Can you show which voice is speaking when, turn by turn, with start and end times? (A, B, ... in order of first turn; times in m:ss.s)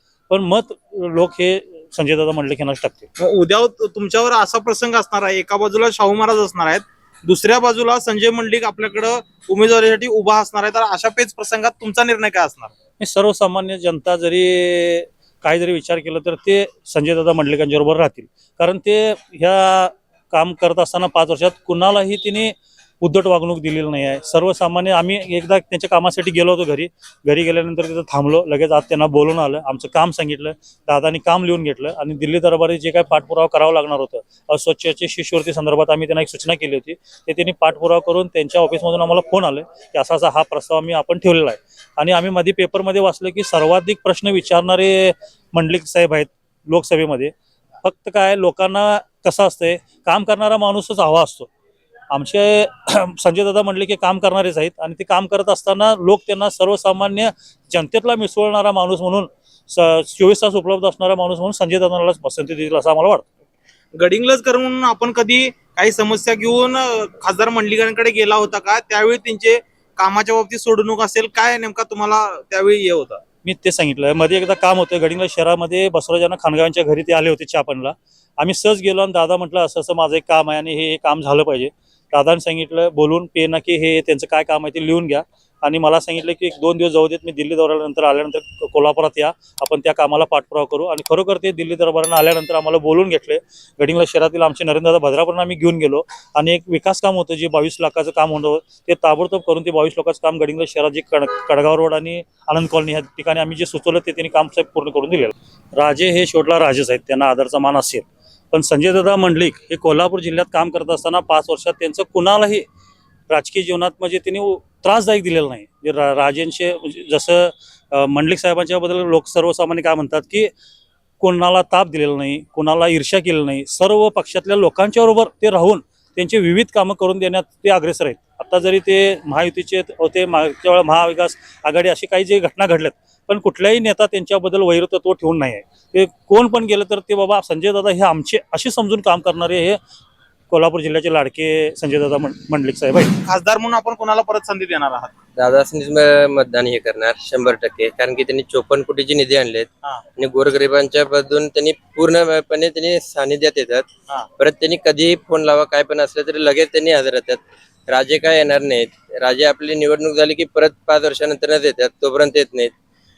0:00.3-0:03.0 A
0:03.2-0:12.7 B
0:13.0-0:51.5 A
0:52.1-1:03.2 A
1:04.0-1:13.2 B
1:13.4-1:52.6 A
1:53.3-2:00.5 A
2:01.2-2:19.8 A
2:20.5-2:23.1 A
2:23.2-2:25.1 B
2:25.4-2:33.9 C
2:34.4-2:42.7 C